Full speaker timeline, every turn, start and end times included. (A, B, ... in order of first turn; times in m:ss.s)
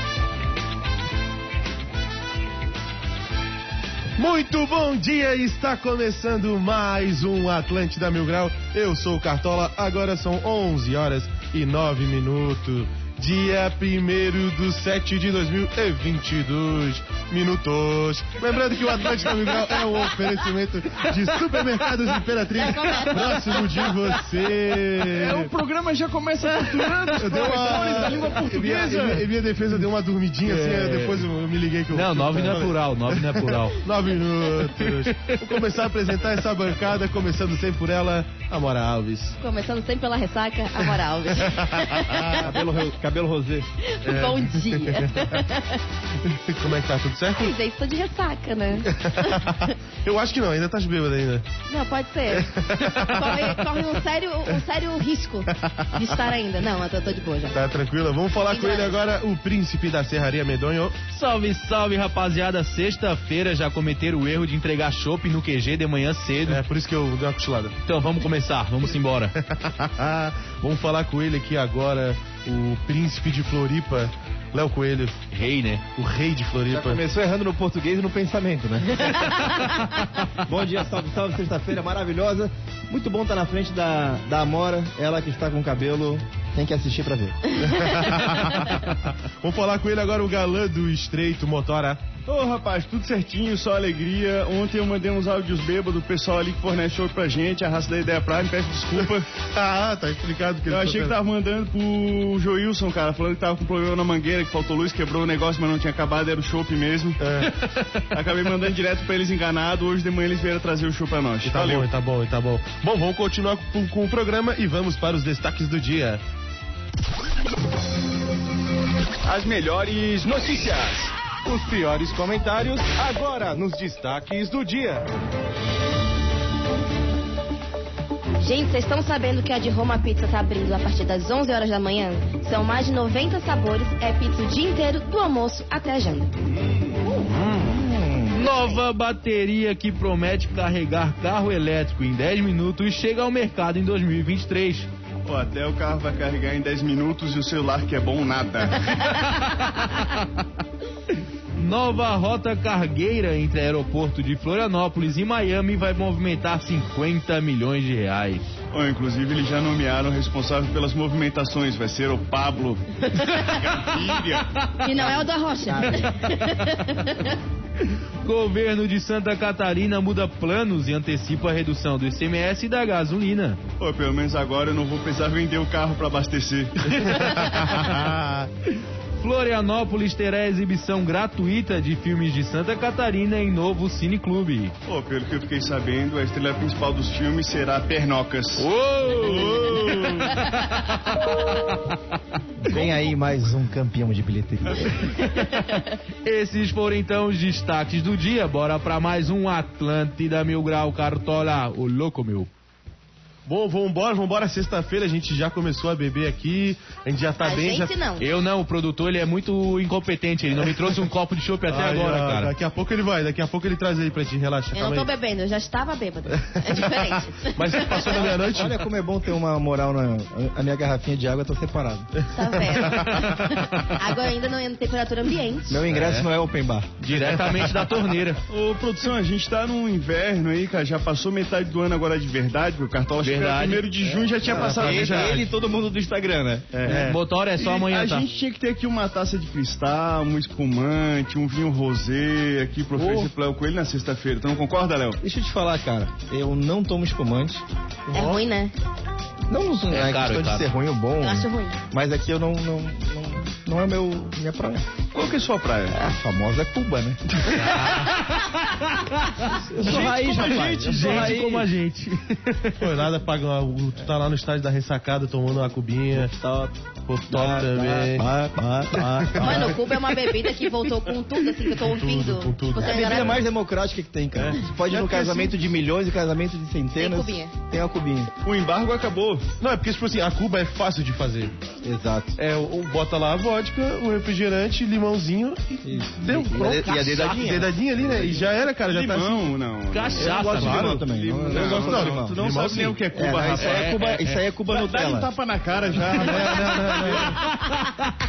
0:04.2-0:25.5 A
0:22.5-0:24.1 B
0:25.1-0:29.3 C
0:27.1-0:39.4 A
0:30.4-0:31.3 D
0:31.9-0:33.8 D
0:34.7-0:35.6 D
0:39.4-0:42.5 B
0:41.4-0:42.4 A
0:42.4-0:43.7 E
0:43.8-0:45.8 B
0:44.0-0:45.4 A
0:46.3-0:47.5 A
0:47.4-0:49.7 B
0:48.8-0:51.4 A
0:51.7-0:57.6 B
0:52.3-0:54.0 A
0:55.5-0:56.2 A
0:57.5-1:01.0 A
0:58.3-0:59.1 B
1:01.1-1:06.6 D
1:06.4-1:07.7 A
1:07.8-1:09.3 D
1:09.4-1:15.2 A
1:15.3-1:15.8 D
1:16.0-1:17.0 A
1:16.7-1:19.5 E
1:20.4-1:27.4 E
1:27.6-1:32.0 A
1:27.7-1:28.1 B
1:32.3-1:39.3 C
1:39.0-1:41.2 A
1:40.6-1:47.4 C
1:47.2-1:48.2 A
1:48.1-1:51.9 C
1:51.4-1:56.2 A
1:59.2-2:01.1 C
2:01.4-2:05.0 A
2:08.4-2:16.3 B
2:16.4-2:17.2 C
2:17.5-2:18.4 E
2:18.3-2:24.9 D
2:25.2-2:29.1 C
2:29.3-2:30.2 D
2:31.6-2:38.4 D
2:38.7-2:42.8 C
2:43.1-2:43.7 B
2:43.6-2:44.6 C
2:44.8-2:47.4 B
2:45.1-2:46.2 E
2:48.2-2:53.6 D
2:53.8-2:57.2 C
2:56.9-2:58.5 A
2:59.2-3:04.7 D
3:04.8-3:10.4 C
3:08.6-3:10.8 D
3:11.4-3:11.8 D
3:12.6-3:15.0 E
3:15.3-3:15.6 D
3:16.2-3:22.5 D
3:23.4-3:27.9 A
3:27.4-3:28.2 B
3:28.2-3:32.5 D
3:31.7-3:35.1 A
3:34.7-3:38.4 B
3:36.3-3:38.8 A
3:38.5-3:42.1 E
3:42.2-3:44.0 A
3:42.3-3:45.8 B
3:45.7-3:47.0 E
3:47.0-3:48.4 D
3:47.5-3:47.9 A
3:48.5-3:55.4 C
3:53.2-3:53.9 D
3:54.4-3:57.0 E
3:54.5-3:55.4 A
3:56.8-3:58.2 D
3:56.8-3:57.2 A
3:57.6-4:05.2 C
4:05.2-4:07.6 E
4:08.1-4:08.4 A
4:08.1-4:08.7 B
4:09.5-4:14.9 E
4:09.9-4:10.7 D
4:11.2-4:11.8 B
4:15.1-4:16.0 C
4:15.9-4:17.2 E
4:17.4-4:22.9 D
4:19.7-4:21.3 E
4:19.8-4:21.6 C
4:22.8-4:26.3 A
4:26.1-4:26.7 E
4:27.1-4:28.3 A
4:27.3-4:29.9 E
4:29.0-4:30.2 A
4:29.4-4:33.4 B
4:31.8-4:33.4 A
4:32.8-4:38.3 E
4:34.4-4:35.5 A
4:37.0-4:37.5 B
4:38.4-4:39.5 C
4:39.6-4:41.5 A
4:41.8-4:42.4 E
4:42.4-4:49.4 A
4:45.8-4:48.5 E
4:46.9-4:47.4 D
4:48.8-4:54.0 C
4:49.9-4:51.0 D
4:50.2-4:53.0 A
4:50.2-4:52.4 E
4:53.1-4:55.3 E
4:53.6-4:54.4 D
4:54.7-4:57.4 C
4:56.0-4:57.4 A
4:57.2-4:58.1 D